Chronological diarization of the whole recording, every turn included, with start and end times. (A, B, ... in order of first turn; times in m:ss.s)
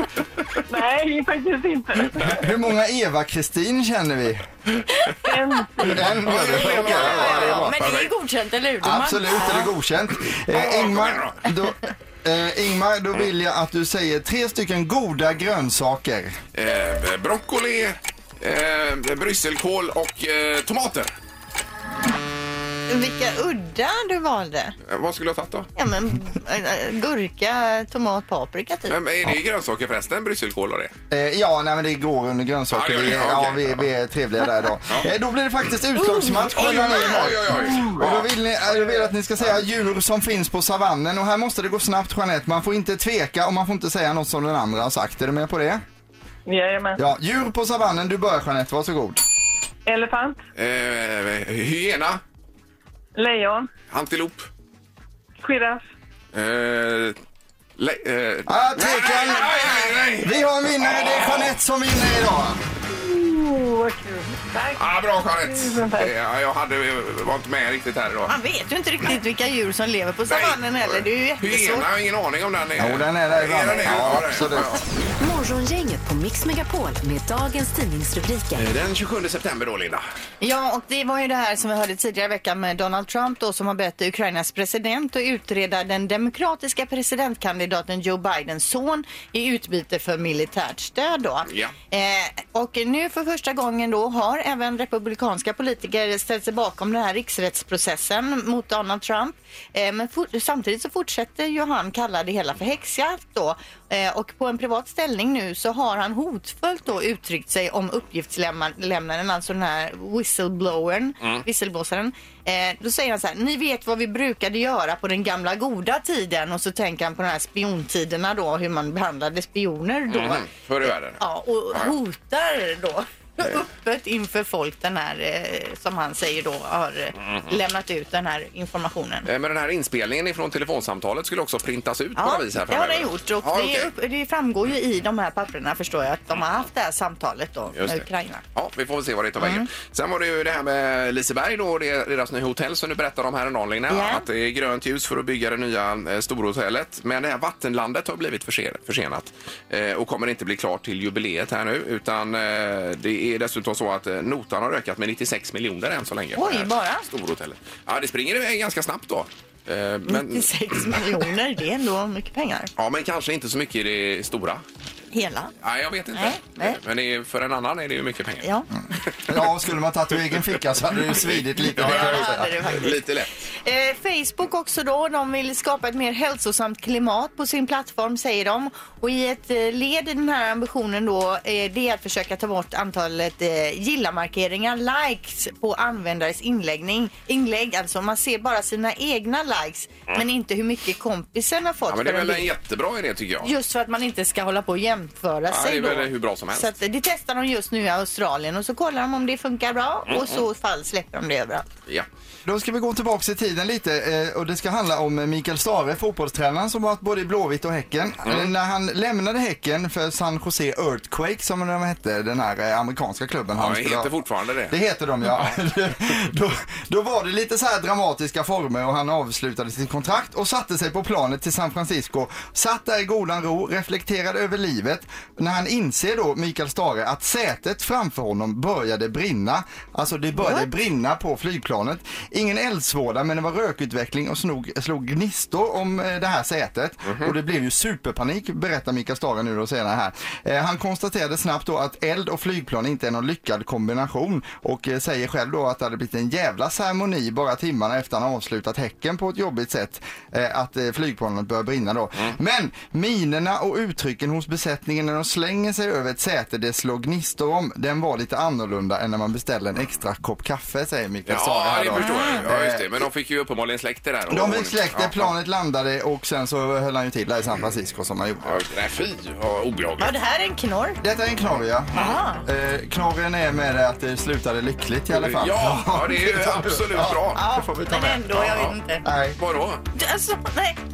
0:00.7-0:02.4 A
0:02.2-0:04.5 B
0:05.2-0:06.0 A
0:05.9-0:07.8 B
0:05.9-0:08.1 C
0:06.7-0:09.7 D
0:08.8-0:16.4 B
0:10.5-0:11.4 C
0:16.5-0:21.1 C
0:22.9-0:24.8 D
0:24.8-0:25.7 C
0:25.8-0:29.0 D
0:28.9-0:30.9 C
0:31.1-0:45.8 B
0:32.7-0:33.9 C
0:36.0-0:37.1 D
0:36.5-0:38.3 C
0:46.5-0:47.0 A
0:47.0-0:49.2 B
0:49.9-0:50.4 A
0:50.6-0:52.2 C
0:53.2-0:53.7 A
0:53.9-0:54.5 C
0:55.4-0:55.8 A
0:56.3-0:57.2 C
0:57.8-1:01.6 C
0:58.5-1:02.6 B
1:02.9-1:04.9 A
1:04.8-1:08.3 C
1:05.4-1:06.1 A
1:08.3-1:11.9 D
1:10.3-1:14.8 C
1:12.8-1:14.8 B
1:15.2-1:18.6 E
1:18.6-1:20.0 C
1:20.4-2:00.5 D
1:31.5-1:31.7 C
2:00.1-2:01.2 C
2:01.2-2:09.3 D
2:09.3-2:13.9 C
2:12.2-2:18.4 D
2:17.8-2:41.1 C
2:19.4-2:19.7 D
2:23.9-2:24.2 D
2:36.4-2:37.1 D
2:40.1-2:42.7 D
2:42.8-2:44.6 C
2:45.1-2:45.5 D
2:45.6-2:48.5 C
2:46.1-2:46.8 D
2:48.4-2:48.7 D
2:49.1-2:49.4 C
2:49.3-2:52.6 B
2:51.1-2:53.4 C
2:51.8-2:53.0 D
2:53.6-3:12.5 D
3:11.9-3:13.5 C
3:13.4-3:21.7 D
3:15.5-3:16.7 C
3:20.1-3:20.4 C
3:22.4-3:34.1 B
3:28.2-3:28.5 C
3:33.6-3:34.8 C
3:34.7-4:23.0 B
3:50.4-3:50.7 D
4:21.3-4:25.3 C
4:22.0-4:22.4 D
4:24.3-4:28.6 B
4:28.4-4:30.1 C
4:30.0-4:31.0 D
4:31.0-4:38.2 B
4:31.9-4:32.4 D
4:35.1-4:37.5 C
4:37.4-4:39.0 D
4:38.0-4:38.8 C
4:39.0-4:39.4 B
4:39.4-4:39.8 C
4:40.0-4:40.8 D